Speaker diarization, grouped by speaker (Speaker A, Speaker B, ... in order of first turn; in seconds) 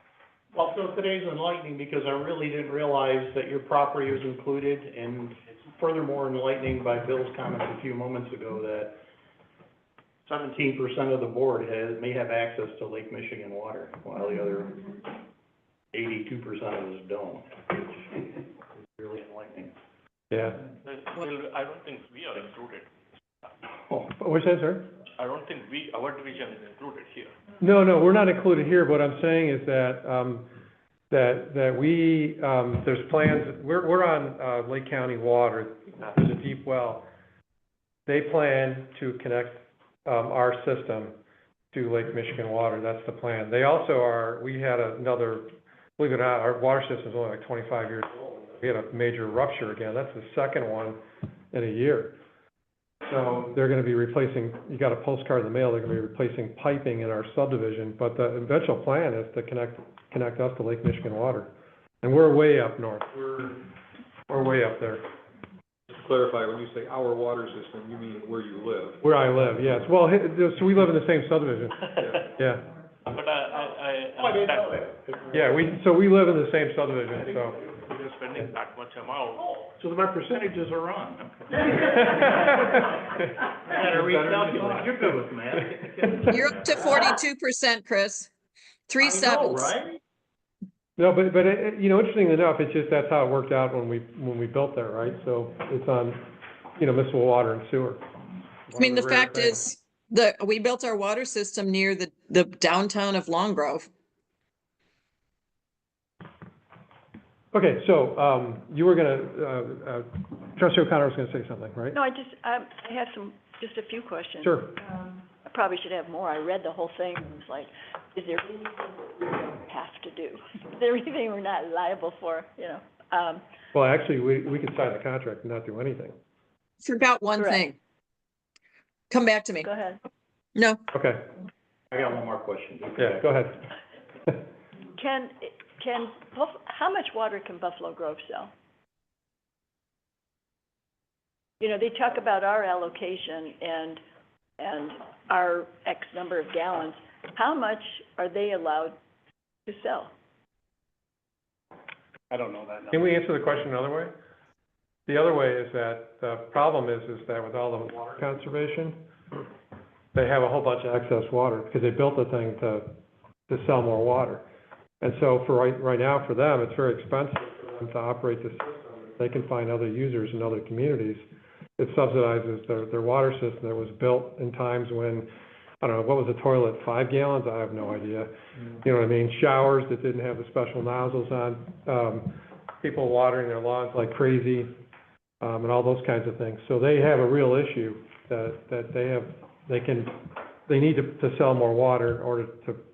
Speaker A: 0.5-9.0, 10.2-15.1, 15.9-19.7, 23.9-24.1, 74.2-75.5, 79.4-82.5, 83.6-87.2, 89.0-90.0, 131.9-133.3
Speaker B: 20.3-20.6, 24.2-24.9, 27.6-30.5, 31.1-37.0, 38.1-41.2, 41.7-51.0, 51.5-52.2, 53.0-61.5, 62.0-63.7, 64.3-65.0, 69.0-72.7, 75.3-77.6, 81.8-83.2, 83.8-85.2, 91.0-98.0, 98.7-99.7, 107.5-112.0, 114.4-114.8, 123.7-126.2, 130.9-131.2, 133.0-133.6, 152.9-154.1, 155.1-159.0, 160.1-163.0, 163.5-164.4, 165.0-171.2, 171.8-175.3, 175.8-184.7, 185.4-192.8
Speaker C: 20.9-22.9, 25.2-27.3, 73.1-74.7, 77.8-79.5
Speaker D: 65.9-69.0
Speaker E: 86.3-88.3, 88.9-89.8, 98.8-103.9, 126.8-127.8, 129.1-129.7, 130.6-130.8
Speaker F: 111.9-123.4, 129.6-130.0, 134.9-138.5, 141.6-144.0, 144.6-149.0, 149.7-150.1